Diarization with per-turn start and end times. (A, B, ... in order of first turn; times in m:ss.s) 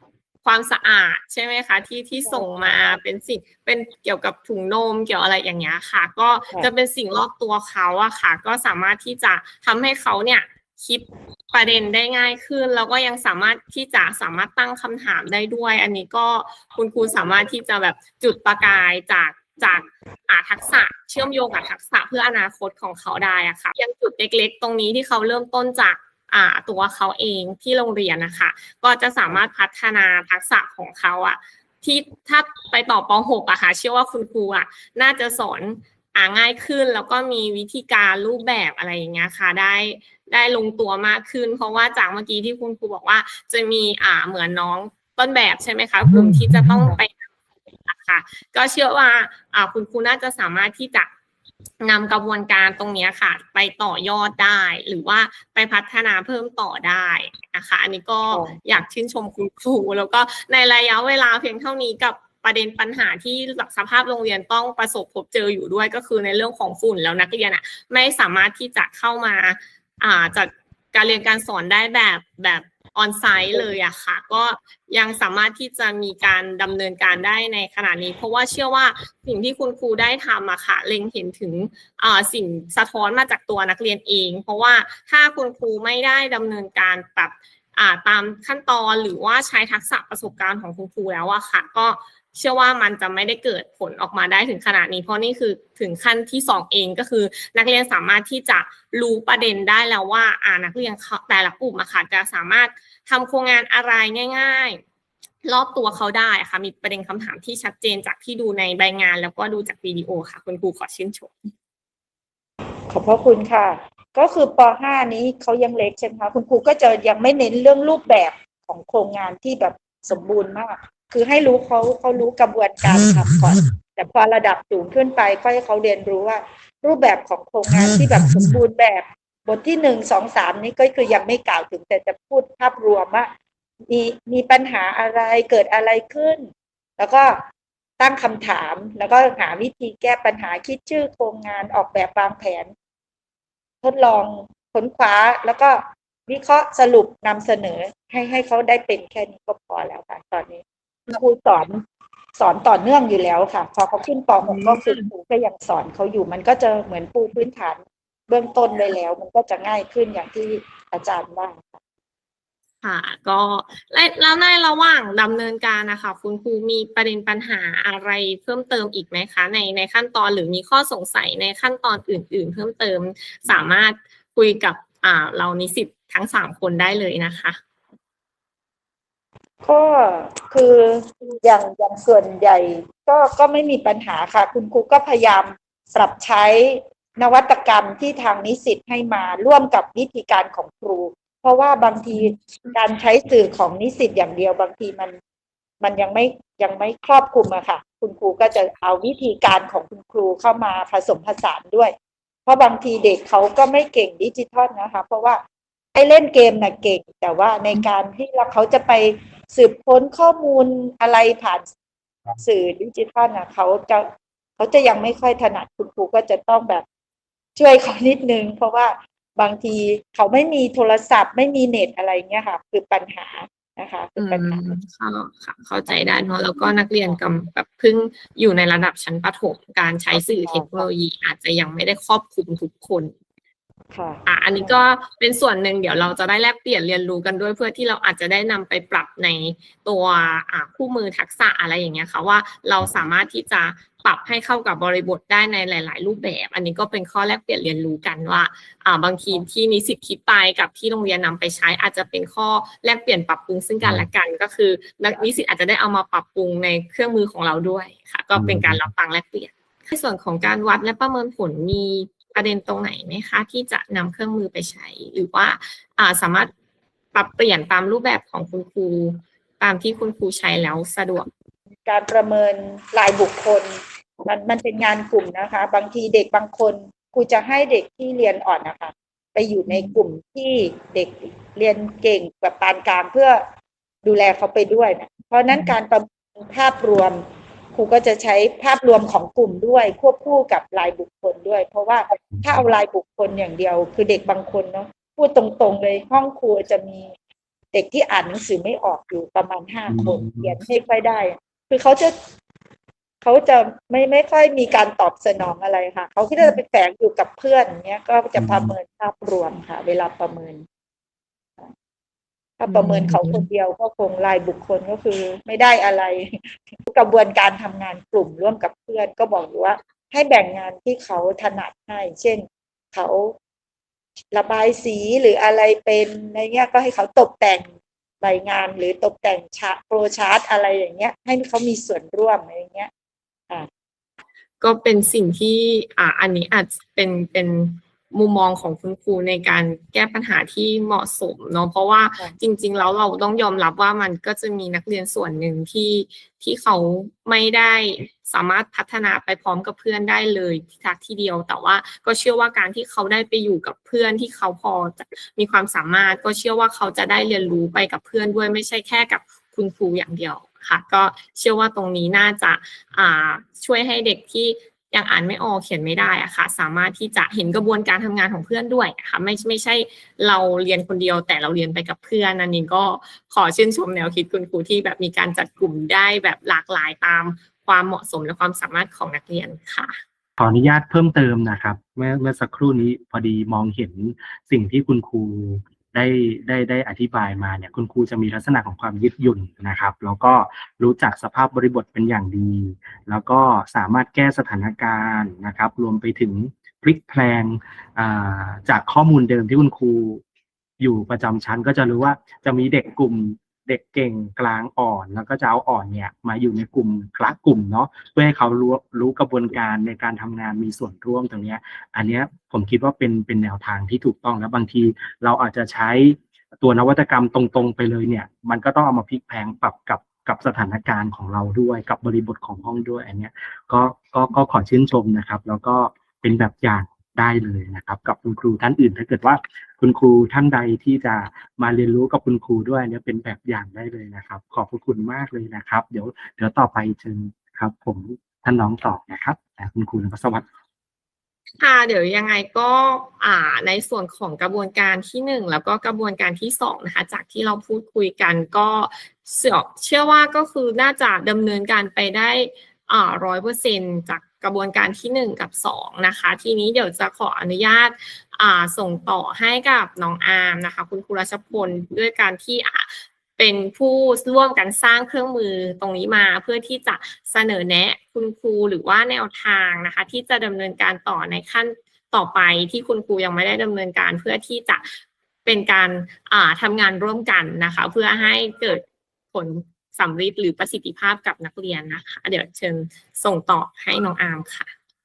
0:00.4-0:47.2 A
0:02.2-0:03.0 B
0:46.1-0:46.9 C
0:47.9-0:51.1 A
0:51.8-1:44.8 A
0:58.3-0:58.6 B
1:45.4-1:51.5 A
1:52.9-2:13.3 B
2:13.9-2:17.4 B
2:18.0-2:22.7 B
2:23.8-2:31.8 B
2:32.4-2:41.8 B
2:34.4-2:35.1 A
2:42.8-2:57.6 A
2:59.6-3:15.2 B
3:15.8-3:21.9 B
3:22.4-3:25.4 B
3:25.9-3:31.7 B
3:32.4-3:36.8 B
3:37.6-3:44.8 B
3:44.2-3:53.1 A
3:45.9-3:46.4 B
3:50.1-3:50.9 B
3:53.9-3:54.8 B
3:54.2-4:26.5 A
4:18.3-4:18.9 C
4:27.1-4:31.3 A
4:31.8-4:43.4 B
4:44.0-4:57.1 B
4:52.3-4:52.7 C
4:57.7-5:02.1 B
4:59.9-5:00.5 C
5:03.2-5:10.6 B
5:08.4-5:08.7 C
5:12.6-5:23.4 B
5:12.7-5:13.2 A
5:24.3-5:32.9 B
5:34.6-6:20.0 A
6:20.4-6:40.2 C
6:40.8-7:20.4 C
7:21.6-8:04.7 A